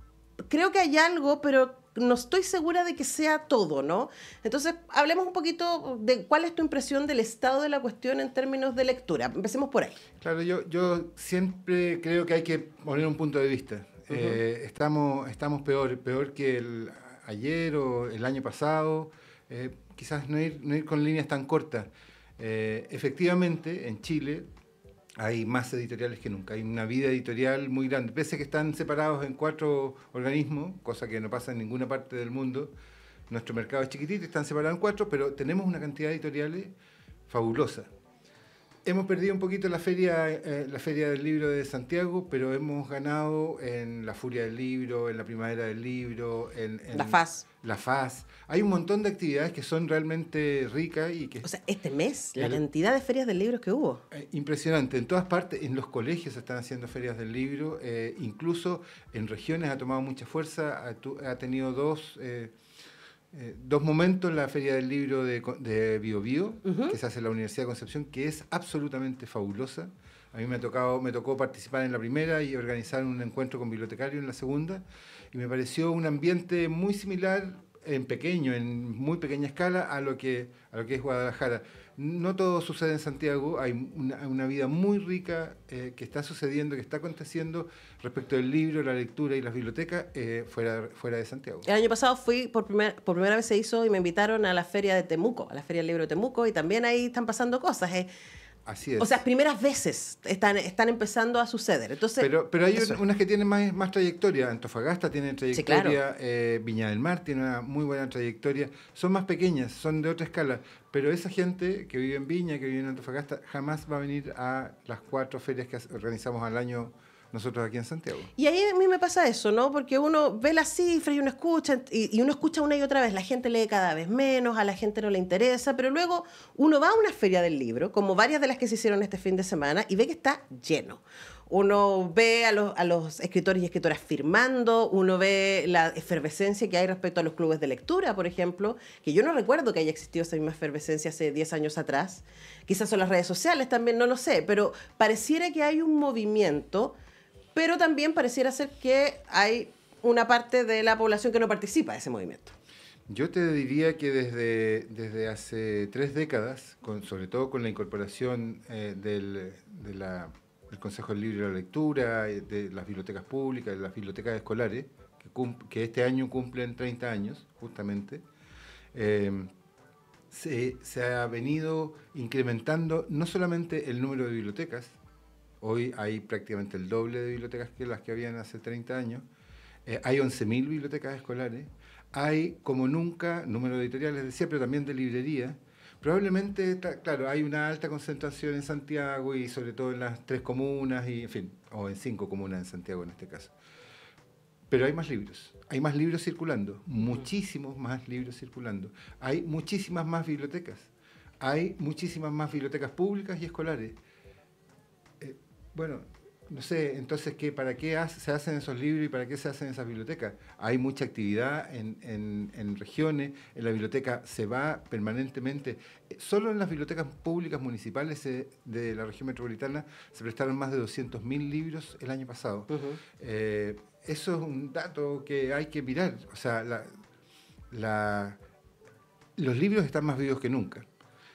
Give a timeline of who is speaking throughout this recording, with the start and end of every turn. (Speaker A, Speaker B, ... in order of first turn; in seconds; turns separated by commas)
Speaker A: 0.5-10.0, Speaker B: 10.2-24.5, Speaker A: 14.1-14.4, Speaker B: 25.2-32.7, Speaker B: 33.3-36.7, Speaker B: 37.3-37.9, Speaker B: 38.8-51.5, Speaker A: 46.9-47.5, Speaker A: 51.4-54.0, Speaker B: 54.1-62.5, Speaker B: 63.3-91.7, Speaker A: 66.7-67.0, Speaker A: 91.6-98.1, Speaker B: 98.7-99.2, Speaker A: 99.0-103.0, Speaker B: 102.2-118.3, Speaker A: 105.5-106.0, Speaker A: 118.3-146.9, Speaker A: 147.5-152.5, Speaker B: 153.1-168.2, Speaker B: 168.9-169.5, Speaker B: 170.3-175.0, Speaker B: 175.6-179.2, Speaker B: 179.8-193.5, Speaker B: 194.7-204.0, Speaker B: 205.2-226.9, Speaker A: 222.7-223.0, Speaker B: 227.7-228.4, Speaker B: 229.4-230.8